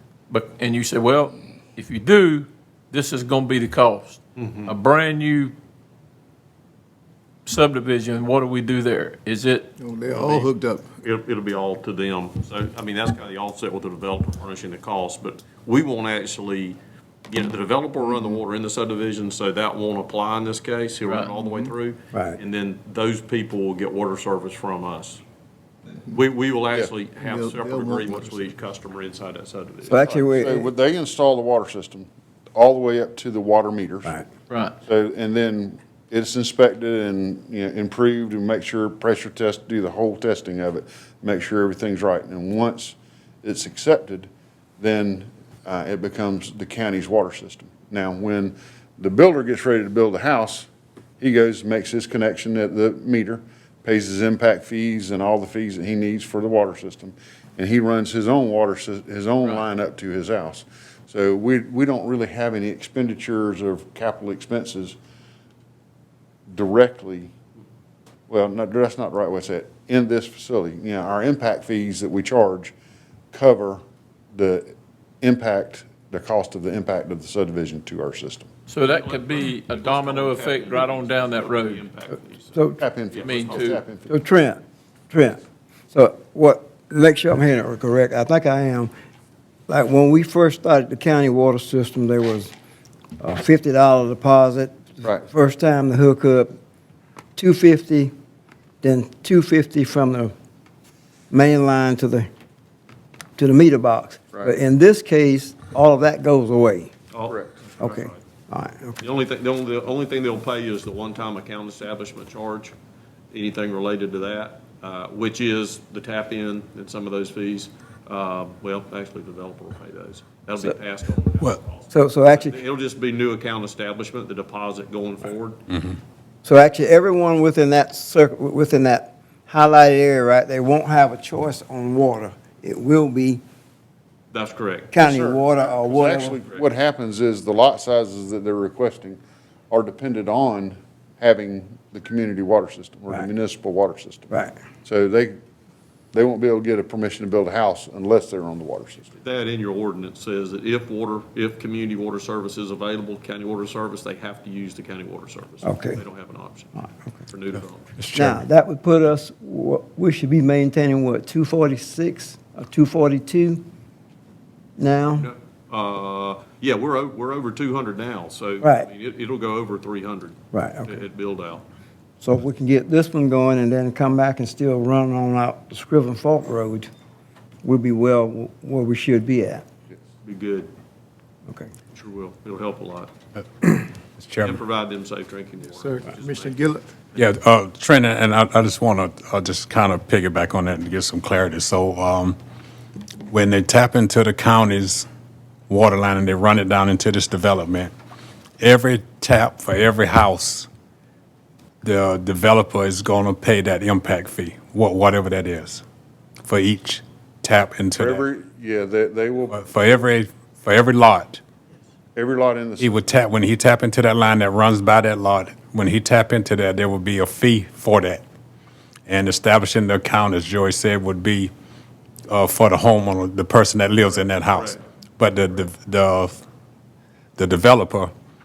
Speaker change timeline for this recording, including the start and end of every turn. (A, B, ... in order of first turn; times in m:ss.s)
0:00.3-0:05.5 A
0:04.4-0:04.7 B
0:07.4-0:10.5 A
0:09.8-0:10.9 C
0:11.0-0:25.2 B
0:21.1-0:21.3 A
0:26.1-0:30.3 B
0:27.2-0:28.5 C
0:29.9-0:30.5 D
0:30.4-0:34.1 E
0:34.5-0:34.8 A
0:34.8-0:50.7 E
0:51.2-1:05.0 E
1:06.5-1:07.3 E
1:08.3-1:12.8 E
1:13.3-1:13.8 E
1:14.3-1:18.5 E
1:18.7-1:21.9 A
1:18.9-1:22.6 B
1:22.8-1:24.2 E
1:23.1-1:23.8 A
1:23.1-1:23.7 B
1:23.4-1:24.1 C
1:24.1-1:24.6 D
1:25.1-1:25.4 D
1:25.9-1:28.9 D
1:29.7-1:32.5 D
1:33.2-1:34.7 D
1:35.3-1:36.5 D
1:37.4-1:38.1 D
1:38.8-1:40.3 D
1:41.3-1:42.3 D
1:43.4-1:46.9 D
1:47.1-1:48.2 B
1:47.8-1:49.0 D
1:49.0-1:52.7 B
1:53.3-2:05.6 B
2:01.9-2:02.5 D
2:06.4-2:13.4 D
2:14.3-2:15.0 B
2:14.9-2:16.3 D
2:15.1-2:19.2 E
2:16.1-2:16.6 C
2:19.7-2:24.3 E
2:24.8-2:25.4 E
2:26.1-2:29.1 E
2:29.2-2:37.9 B
2:35.6-2:36.0 D
2:38.0-2:38.4 F
2:38.2-2:43.6 D
2:44.8-2:45.3 D
2:45.2-2:51.6 B
2:48.6-2:48.9 D
2:50.5-2:50.9 D
2:52.2-2:56.9 D
2:57.6-2:59.6 D
3:00.2-3:00.7 B
3:01.9-3:03.1 B
3:04.2-3:04.6 F
3:04.4-3:06.6 B
3:05.8-3:06.8 C
3:07.2-3:12.4 F
3:13.3-3:15.1 F
3:15.7-3:17.9 F
3:18.6-3:20.7 F
3:21.8-3:25.8 F
3:26.5-3:28.2 F
3:28.0-3:29.5 E
3:29.5-3:31.4 F
3:32.2-3:32.8 E
3:32.8-3:38.2 F
3:39.1-3:41.5 F
3:42.3-3:46.4 F
3:44.3-3:44.8 B
3:47.4-3:48.1 F